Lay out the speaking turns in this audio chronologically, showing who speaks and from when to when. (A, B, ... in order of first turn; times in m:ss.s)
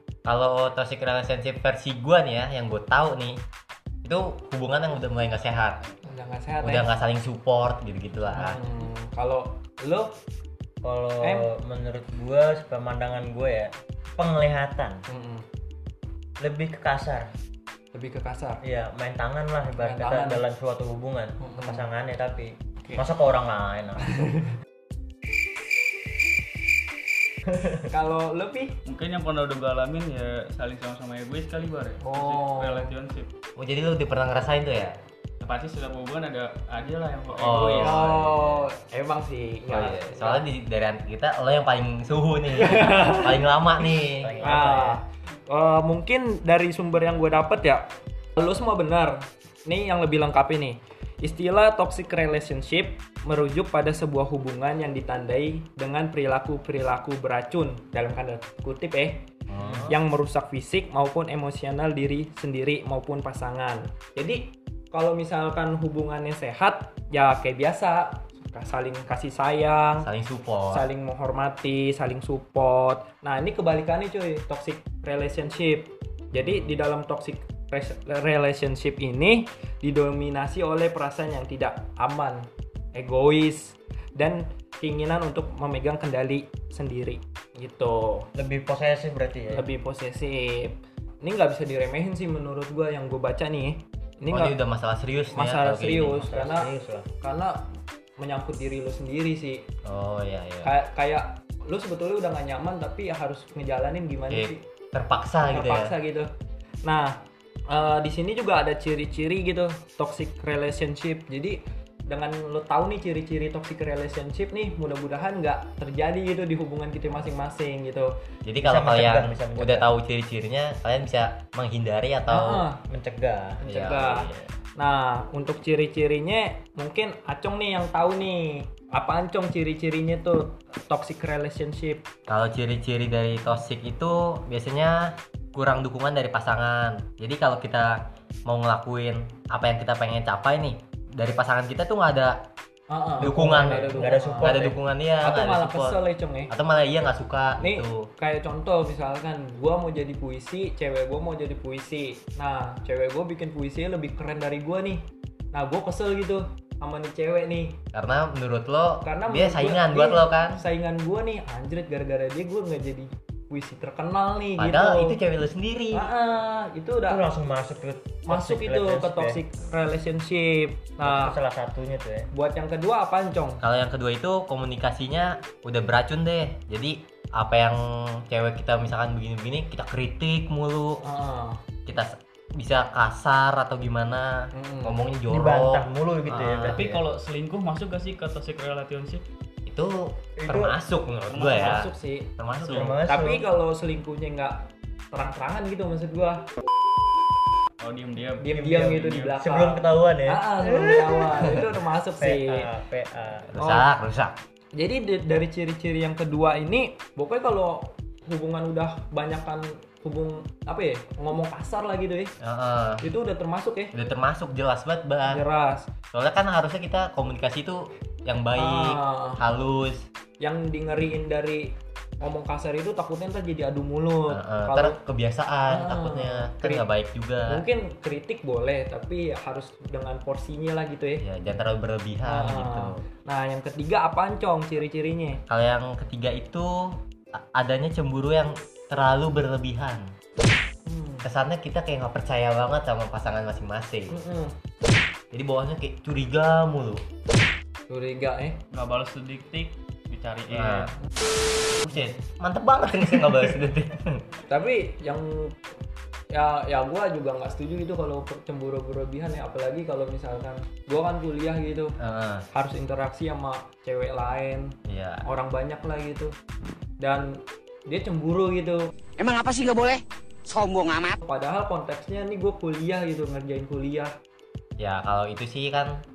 0:00.2-0:03.4 A
0:04.0-0:05.8 A
0:06.0-0:06.9 B
0:06.6-0:08.6 A
0:08.3-0:10.1 B
0:10.8-0:15.0 C
0:11.2-0:11.5 B
0:15.1-0:15.4 B
0:16.4-0:17.3 C
0:17.9-0:18.6 B
0:18.6-0:24.0 C
0:19.8-0:20.4 B
0:21.4-0:21.8 B
0:24.0-0:24.5 B
0:27.4-0:27.8 C
0:27.9-0:28.8 B
0:28.8-0:33.3 D
0:32.0-0:32.9 B
0:33.6-0:34.9 A
0:35.4-0:38.0 D
0:37.3-0:38.7 A
0:37.8-0:40.4 B
0:39.7-0:44.4 A
0:42.7-0:43.3 B
0:44.1-0:45.0 C
0:44.4-0:59.2 B
0:59.5-1:00.0 A
0:59.6-0:59.9 C
0:59.9-1:10.1 B
1:10.0-1:10.9 A
1:10.7-1:28.3 B
1:28.3-1:29.7 C
1:29.5-1:34.6 B
1:34.3-1:36.2 A
1:35.3-1:37.6 B
1:36.0-1:37.1 C
1:38.2-1:39.6 B
1:39.8-1:40.7 A
1:40.6-1:44.6 B
1:44.3-1:45.9 A
1:45.5-1:46.3 B
1:46.8-1:58.1 B
1:58.4-2:02.6 A
1:58.6-1:59.9 C
2:02.3-2:02.8 B
2:02.9-2:03.6 C
2:03.6-2:12.0 B
2:03.6-2:04.5 A
2:12.3-2:15.0 A
2:15.5-2:17.9 A
2:18.5-2:22.3 A
2:22.9-2:26.5 B
2:23.2-2:28.0 A
2:23.2-2:24.7 C
2:27.6-2:37.8 B
2:37.9-2:40.6 A
2:39.0-2:45.2 B
2:44.6-2:46.1 A
2:45.9-2:47.2 B
2:47.1-2:49.4 C
2:48.3-2:51.4 B
2:51.0-2:52.3 C
2:52.3-2:53.6 B
2:53.6-3:01.1 A
3:01.0-3:01.6 B
3:01.8-3:06.8 A
3:04.5-3:05.0 B
3:05.3-3:07.0 C
3:06.6-3:09.2 D
3:09.7-3:11.8 A
3:10.4-3:10.7 C
3:11.3-3:11.8 D
3:11.5-3:12.3 B
3:12.4-3:12.8 A
3:12.5-3:13.0 D
3:12.7-3:13.4 C
3:13.0-3:16.4 B
3:17.8-3:19.4 D
3:18.4-3:22.7 B
3:18.5-3:23.7 C
3:23.5-3:24.4 A
3:24.7-3:32.3 B
3:32.4-3:33.1 A
3:33.0-3:33.9 B
3:33.9-3:35.4 A
3:35.3-3:35.9 B
3:36.1-3:40.0 A
3:38.6-3:39.4 B
3:40.4-3:45.0 B
3:44.3-3:47.6 A
3:45.7-3:46.9 B
3:47.5-3:51.2 B
3:51.2-3:53.0 A
3:52.2-3:55.4 B
3:55.5-3:56.9 A
3:57.5-4:00.0 A
4:00.8-4:01.3 B
4:01.2-4:04.2 A
4:04.1-4:04.5 B
4:05.3-4:07.0 A
4:07.9-4:08.6 B
4:08.7-4:10.9 D
4:10.5-4:10.9 A
4:11.8-4:14.2 A
4:11.9-4:12.2 B
4:14.5-4:15.6 B
4:16.3-4:22.0 B
4:22.0-4:22.4 A
4:22.5-4:24.7 B
4:24.9-4:25.2 A
4:25.2-4:26.3 B
4:27.0-4:28.9 B
4:29.2-4:31.1 E
4:31.2-4:34.1 B
4:34.8-4:35.9 A